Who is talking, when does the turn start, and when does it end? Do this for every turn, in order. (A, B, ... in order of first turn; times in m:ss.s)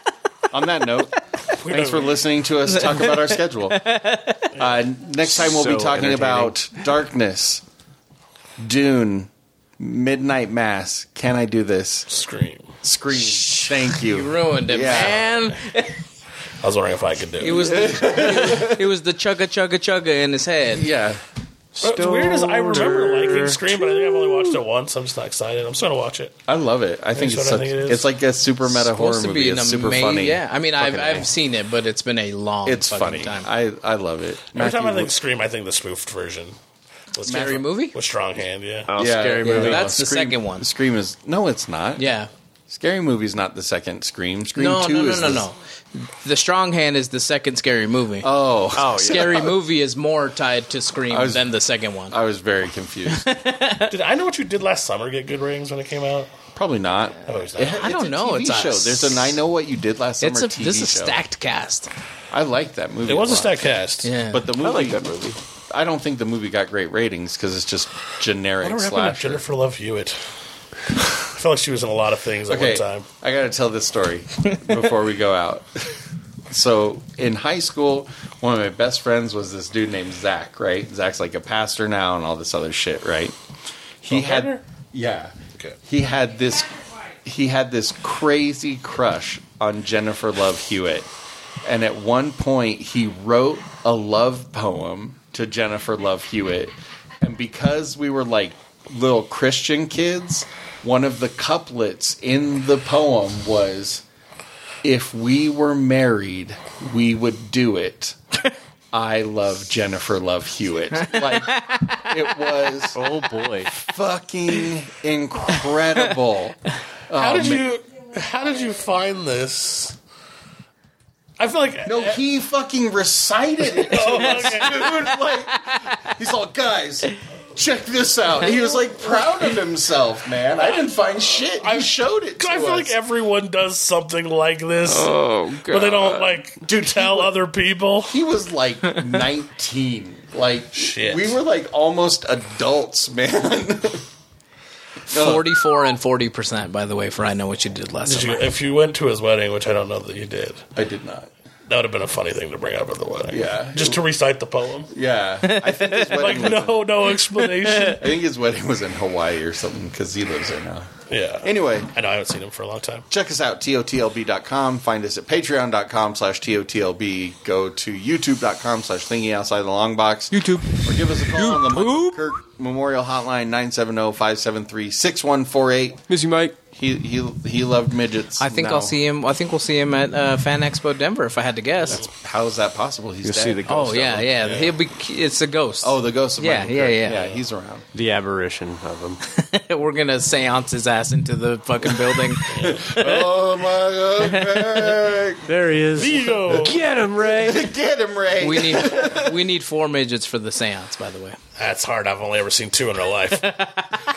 0:00.5-0:03.9 A
0:01.6-0:02.2 B
0:02.7-0:03.1 C
0:03.7-0:04.5 C
0:04.5-0:07.6 A
0:05.2-0:06.6 D
0:08.6-0:12.1 A
0:12.1-0:12.7 B
0:12.8-0:15.3 A
0:14.0-0:16.0 C
0:16.6-0:18.1 B
0:17.4-0:20.9 C
0:17.6-0:18.8 A
0:20.7-0:21.2 A
0:21.8-0:24.6 D
0:21.8-0:26.4 B
0:26.5-0:30.4 A
0:27.1-0:28.0 B
0:28.7-0:33.5 C
0:30.8-0:31.3 D
0:32.6-0:35.1 A
0:34.5-0:36.6 B
0:37.1-0:38.9 B
0:37.2-0:37.6 A
0:37.3-0:37.9 C
0:38.9-0:39.9 D
0:38.9-0:42.1 A
0:39.4-0:40.6 C
0:42.0-0:42.3 C
0:42.7-0:45.5 A
0:44.6-0:48.3 C
0:48.2-0:49.6 A
0:48.8-0:49.5 D
0:48.9-0:52.2 C
0:51.1-0:51.5 A
0:52.1-0:53.3 A
0:53.1-0:53.9 C
0:53.9-0:56.3 B
0:56.5-1:01.2 A
0:57.3-0:57.8 B
0:57.8-0:59.3 C
1:00.2-1:01.9 C
1:02.3-1:03.7 A
1:03.0-1:04.1 B
1:04.0-1:04.4 C
1:04.2-1:05.1 A
1:04.6-1:05.4 D
1:05.7-1:09.4 A
1:08.6-1:10.3 B
1:11.1-1:13.0 B
1:12.5-1:16.0 A
1:16.5-1:23.4 A
1:24.0-1:31.1 A
1:24.1-1:24.6 B
1:31.6-1:44.0 A
1:44.8-1:48.2 A
1:48.9-1:53.1 A
1:51.1-1:52.1 C
1:52.9-1:53.7 D
1:53.7-1:57.7 A
1:57.2-2:00.0 B
2:01.4-2:02.2 B
2:01.8-2:13.0 A
2:03.8-2:04.9 B
2:04.0-2:04.9 C
2:10.6-2:10.8 B
2:11.6-2:15.1 B
2:15.1-2:16.1 C
2:15.7-2:18.2 B
2:16.6-2:17.3 A
2:18.0-2:24.1 A
2:20.7-2:21.4 B
2:25.1-2:28.5 C
2:25.1-2:25.6 A
2:28.0-2:30.6 B
2:30.7-2:31.3 A
2:31.7-2:34.9 B
2:33.3-2:34.0 A
2:34.9-2:36.9 A
2:35.4-2:36.2 C
2:36.1-2:38.1 B
2:37.7-2:38.0 C
2:37.8-2:41.9 A
2:41.1-2:43.0 B
2:43.1-2:56.0 A
2:50.3-2:52.2 C
2:56.1-2:56.6 D
2:56.7-2:59.0 A
2:58.4-3:02.0 C
3:01.9-3:04.3 A
3:03.2-3:04.0 D
3:03.7-3:07.4 C
3:04.4-3:04.8 B
3:05.8-3:07.8 A
3:07.9-3:09.2 D
3:09.3-3:13.2 C
3:12.5-3:13.2 B
3:12.5-3:15.5 A
3:14.2-3:14.8 C
3:15.4-3:17.7 D
3:16.0-3:16.8 B
3:17.2-3:19.3 A
3:18.4-3:21.4 C
3:21.6-3:23.5 B
3:23.4-3:24.0 C